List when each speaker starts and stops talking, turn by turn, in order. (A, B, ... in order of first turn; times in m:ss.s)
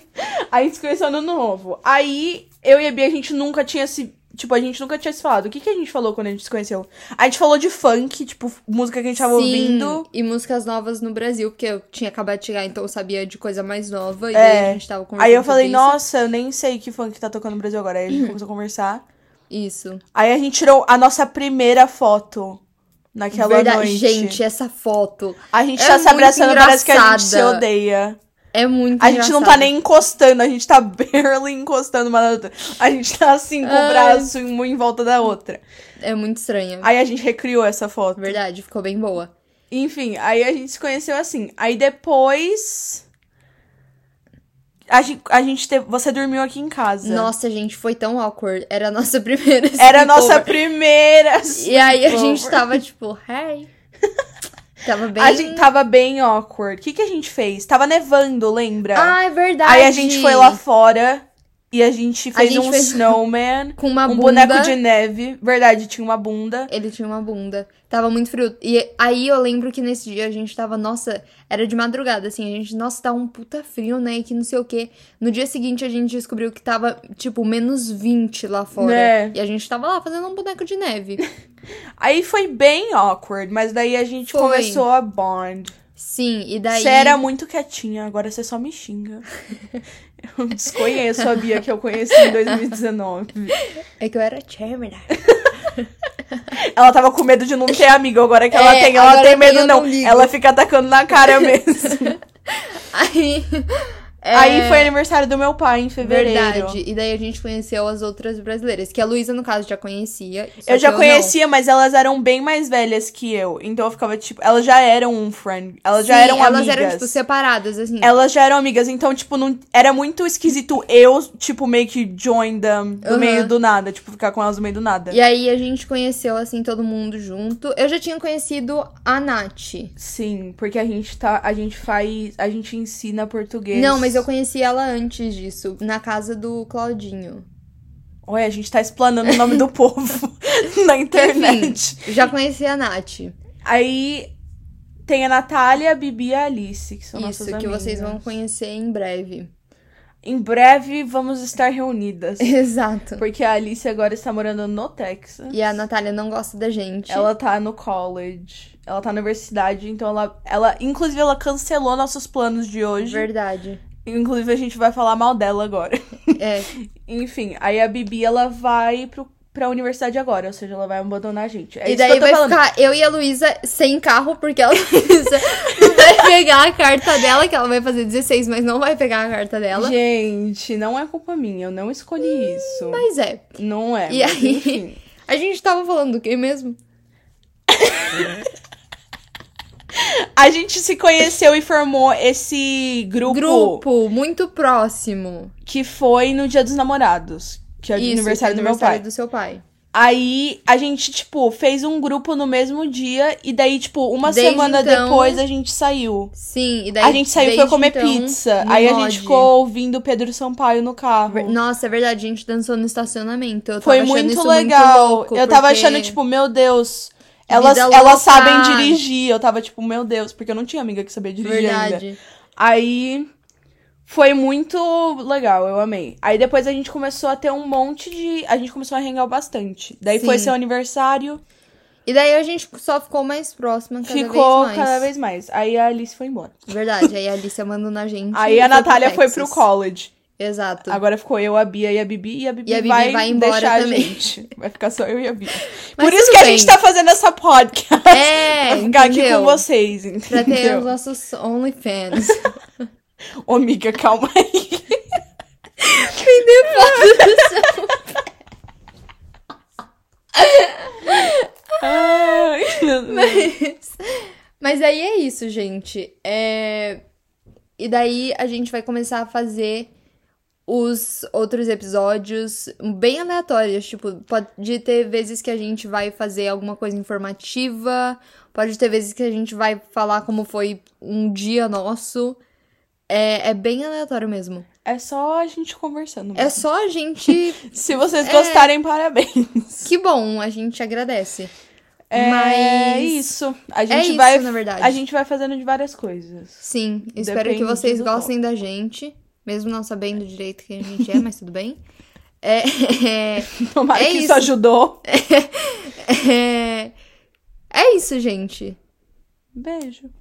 0:00.2-0:10.0 A
0:09.2-0:16.0 B
0:14.3-0:19.0 A
0:19.5-0:20.0 B
0:20.1-0:22.6 A
0:23.1-0:24.4 A
0:23.3-0:27.6 B
0:25.5-0:28.2 A
0:28.5-0:29.7 B
0:29.0-0:35.6 A
0:33.6-0:34.3 B
0:36.0-0:36.9 B
0:36.8-0:38.4 A
0:38.2-0:39.3 B
0:39.7-0:43.0 A
0:44.9-0:47.3 A
0:47.0-0:50.6 B
0:49.8-0:52.8 A
0:51.6-0:53.7 B
0:54.8-0:55.7 B
0:55.2-1:06.7 A
0:58.9-1:00.6 B
1:02.3-1:03.2 B
1:03.8-1:04.8 B
1:06.7-1:21.2 B
1:18.8-1:19.3 A
1:22.0-1:25.7 A
1:24.3-1:24.8 B
1:26.0-1:27.2 B
1:26.7-1:29.2 A
1:30.2-1:33.5 A
1:32.2-1:32.5 B
1:34.0-1:35.2 B
1:35.8-1:36.4 B
1:36.6-1:42.2 A
1:38.5-1:40.3 B
1:41.4-1:41.9 B
1:42.5-1:44.9 B
1:44.3-1:46.8 A
1:46.0-1:51.3 B
1:50.6-1:57.1 A
1:56.0-1:58.2 B
1:58.0-2:05.2 A
2:03.0-2:03.5 B
2:05.1-2:09.9 B
2:10.0-2:14.2 A
2:13.7-2:17.4 B
2:18.2-2:22.1 A
2:19.2-2:19.5 B
2:21.1-2:23.3 B
2:23.6-2:24.3 A
2:25.0-2:28.2 A
2:27.1-2:29.5 B
2:30.2-2:32.5 A
2:32.4-2:33.2 B
2:33.2-2:35.7 A
2:35.5-2:37.3 B
2:37.1-2:43.2 A
2:43.0-2:43.8 B
2:44.0-2:46.4 A
2:46.4-2:46.7 B
2:47.0-2:52.6 A
2:51.8-2:59.9 B
2:59.7-3:03.0 A
3:02.2-3:03.4 B
3:03.6-3:05.0 A
3:04.1-3:06.8 B
3:07.7-3:08.3 A
3:09.9-3:13.8 A
3:13.2-3:15.5 B
3:15.6-3:19.0 A
3:18.0-3:19.6 B
3:19.9-3:26.3 A
3:24.2-3:25.4 B
3:26.3-3:29.5 B
3:27.0-3:31.5 A
3:31.3-3:36.2 B
3:33.8-3:42.0 A
3:37.5-3:39.0 B
3:41.4-3:42.2 B
3:42.6-3:43.3 A
3:44.1-3:51.4 A
3:50.2-3:50.6 B
3:52.0-3:55.1 B
3:54.0-3:56.6 A
3:56.7-3:59.6 B
3:58.3-4:00.1 A
4:00.3-4:01.0 B
4:00.9-4:10.9 A
4:02.6-4:04.2 B
4:05.7-4:06.8 B
4:08.1-4:09.6 B
4:10.3-4:12.5 B
4:13.4-4:15.0 A
4:15.8-4:18.0 B
4:16.7-4:17.7 A
4:20.3-4:22.5 B
4:21.8-4:23.5 A
4:23.1-4:24.0 B
4:24.6-4:27.0 B
4:27.8-4:29.9 B
4:30.6-4:42.4 B
4:43.1-4:44.6 B
4:44.8-4:46.6 A
4:46.4-4:48.7 B
4:47.3-4:49.9 A
4:49.8-4:51.5 B
4:52.1-4:56.6 A
4:52.1-4:53.2 B
4:53.9-4:55.0 B
4:56.6-5:01.8 B
4:57.1-4:58.3 A
5:02.4-5:04.5 B
5:03.5-5:05.0 A
5:05.0-5:06.9 B
5:07.7-5:08.8 B
5:09.6-5:10.1 A